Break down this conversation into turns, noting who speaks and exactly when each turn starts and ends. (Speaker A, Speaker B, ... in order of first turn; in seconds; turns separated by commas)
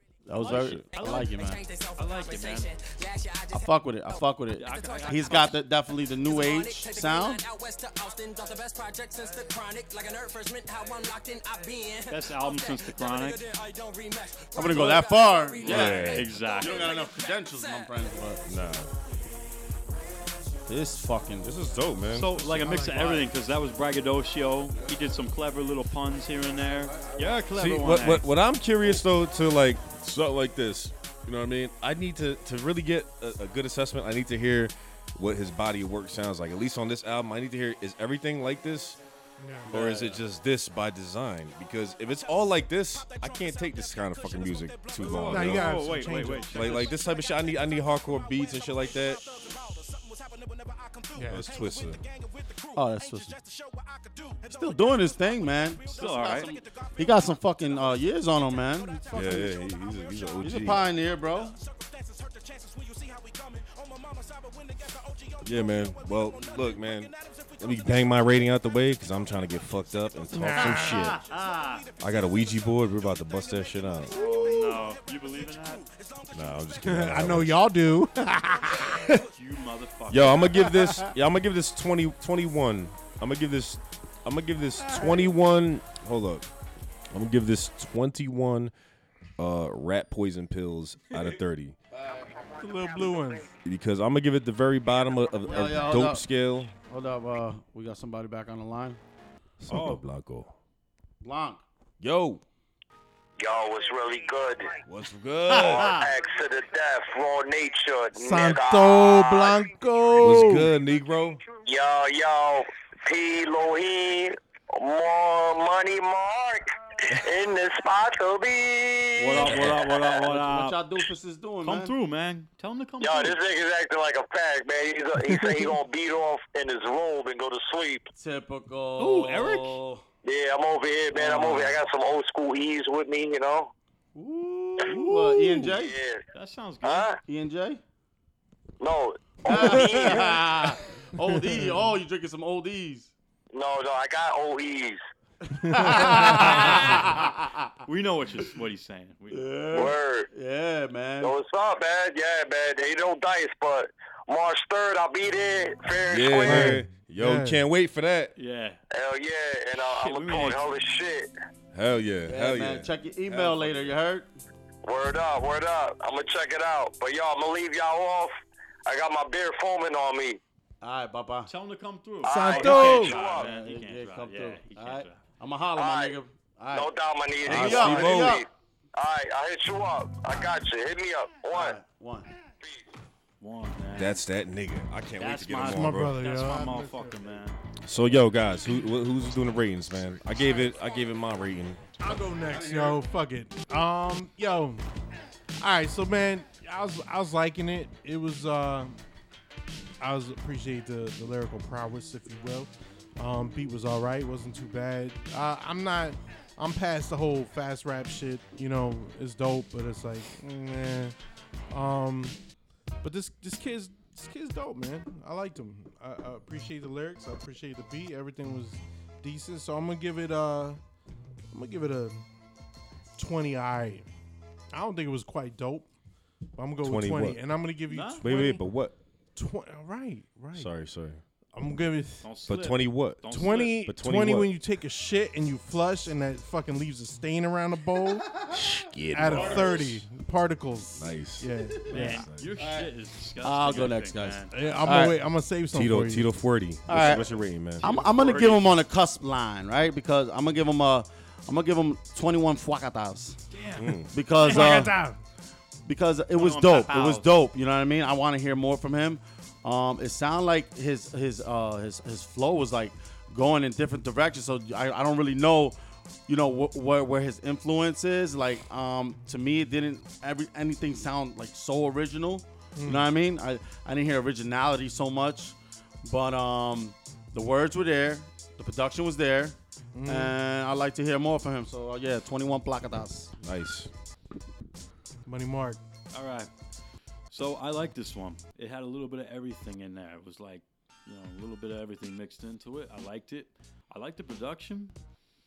Speaker A: 0.2-1.6, Speaker B: 0.4-18.1, Speaker C: 0.4-1.3, Speaker C: 2.0-2.7, Speaker A: 3.5-7.4, Speaker C: 4.5-5.6, Speaker C: 12.1-13.4, Speaker A: 14.6-18.4, Speaker D: 15.6-16.3, Speaker C: 15.6-17.0, Speaker D: 18.4-18.9, Speaker A: 20.7-21.6, Speaker D: 21.4-22.6, Speaker C: 22.1-28.3, Speaker E: 22.4-23.2, Speaker A: 22.8-23.2, Speaker D: 27.5-39.0, Speaker E: 39.4-39.7, Speaker A: 39.7-40.2, Speaker D: 39.7-49.6, Speaker C: 45.0-46.9, Speaker E: 45.1-46.8, Speaker E: 51.1-51.6, Speaker D: 51.2-52.1, Speaker A: 52.7-53.4, Speaker A: 54.4-59.4, Speaker C: 55.9-56.5, Speaker D: 59.1-60.9, Speaker E: 59.2-59.5, Speaker A: 60.4-61.6, Speaker D: 65.4-71.2, Speaker E: 70.3-71.2, Speaker C: 70.9-71.9, Speaker D: 72.0-74.2, Speaker C: 74.1-75.9, Speaker E: 74.1-74.8, Speaker D: 76.3-77.6, Speaker E: 76.8-79.3, Speaker C: 79.3-80.5, Speaker D: 80.1-86.5, Speaker E: 80.5-81.1, Speaker E: 84.8-85.3, Speaker D: 87.1-88.7, Speaker D: 89.4-91.8, Speaker E: 92.6-93.5, Speaker D: 93.6-96.7, Speaker A: 95.5-96.2, Speaker A: 96.9-99.0, Speaker D: 99.6-100.5, Speaker C: 99.7-100.0, Speaker A: 101.2-101.6, Speaker D: 102.0-102.4, Speaker F: 103.4-104.7, Speaker D: 104.8-106.0, Speaker C: 105.5-106.1, Speaker F: 105.6-109.6, Speaker E: 108.2-110.7, Speaker D: 110.2-111.4, Speaker F: 111.6-120.1, Speaker C: 119.2-120.8, Speaker A: 120.1-121.9, Speaker C: 121.6-123.4, Speaker F: 123.0-128.1, Speaker A: 128.1-130.0, Speaker C: 129.0-129.8, Speaker F: 130.2-133.7, Speaker A: 131.1-131.8, Speaker A: 134.1-135.9, Speaker E: 134.9-135.6, Speaker F: 135.7-136.2, Speaker C: 136.3-137.1, Speaker F: 136.8-137.2, Speaker A: 137.2-137.8, Speaker F: 138.8-140.4, Speaker A: 139.4-143.1, Speaker E: 141.2-141.9, Speaker F: 143.5-145.0, Speaker A: 145.5-147.7, Speaker E: 145.6-146.8, Speaker C: 146.3-147.0, Speaker C: 147.8-149.5, Speaker A: 149.3-151.3, Speaker F: 149.7-150.3, Speaker F: 151.2-156.7, Speaker D: 156.1-158.3, Speaker E: 156.4-157.6, Speaker C: 158.4-158.8, Speaker F: 158.9-161.3, Speaker C: 159.7-160.6, Speaker D: 161.7-164.0, Speaker A: 162.3-164.3, Speaker F: 164.8-168.3, Speaker F: 168.8-170.4, Speaker A: 170.8-171.5, Speaker C: 171.5-175.2, Speaker F: 172.2-173.5, Speaker E: 172.3-173.1, Speaker A: 172.8-176.9, Speaker F: 175.8-176.2, Speaker F: 176.7-181.8, Speaker A: 177.4-178.4, Speaker D: 177.4-178.4, Speaker A: 181.5-182.3, Speaker C: 183.4-184.2, Speaker D: 183.9-186.2, Speaker C: 185.2-187.6, Speaker E: 185.7-187.4, Speaker D: 187.8-192.0, Speaker E: 192.0-194.8, Speaker A: 192.4-193.0, Speaker E: 195.6-199.0, Speaker E: 200.0-211.1, Speaker E: 211.7-212.4, Speaker E: 213.0-220.8, Speaker E: 221.5-222.2, Speaker E: 223.2-224.1, Speaker E: 224.7-225.9, Speaker E: 226.5-228.6, Speaker D: 226.8-227.4, Speaker C: 227.9-228.5, Speaker D: 228.2-228.9, Speaker E: 229.3-230.7, Speaker D: 230.5-231.2, Speaker E: 231.5-232.2, Speaker C: 232.2-233.9, Speaker D: 232.5-234.5, Speaker E: 233.3-238.3, Speaker A: 238.2-238.6, Speaker D: 238.5-240.0, Speaker E: 239.1-242.2, Speaker A: 239.2-239.9, Speaker D: 240.9-242.5, Speaker C: 241.9-244.6, Speaker A: 242.6-245.2, Speaker E: 244.5-246.3, Speaker D: 245.7-247.9, Speaker A: 246.9-247.2, Speaker C: 247.8-248.7, Speaker A: 247.8-253.4, Speaker C: 253.5-254.8, Speaker D: 253.8-254.1, Speaker A: 254.1-255.1, Speaker E: 254.4-255.2, Speaker A: 255.8-265.8, Speaker C: 256.4-257.3, Speaker A: 266.3-283.3, Speaker E: 272.8-273.1, Speaker E: 279.9-280.3, Speaker D: 283.4-283.9, Speaker E: 285.2-285.8, Speaker C: 286.1-286.5, Speaker C: 287.3-294.9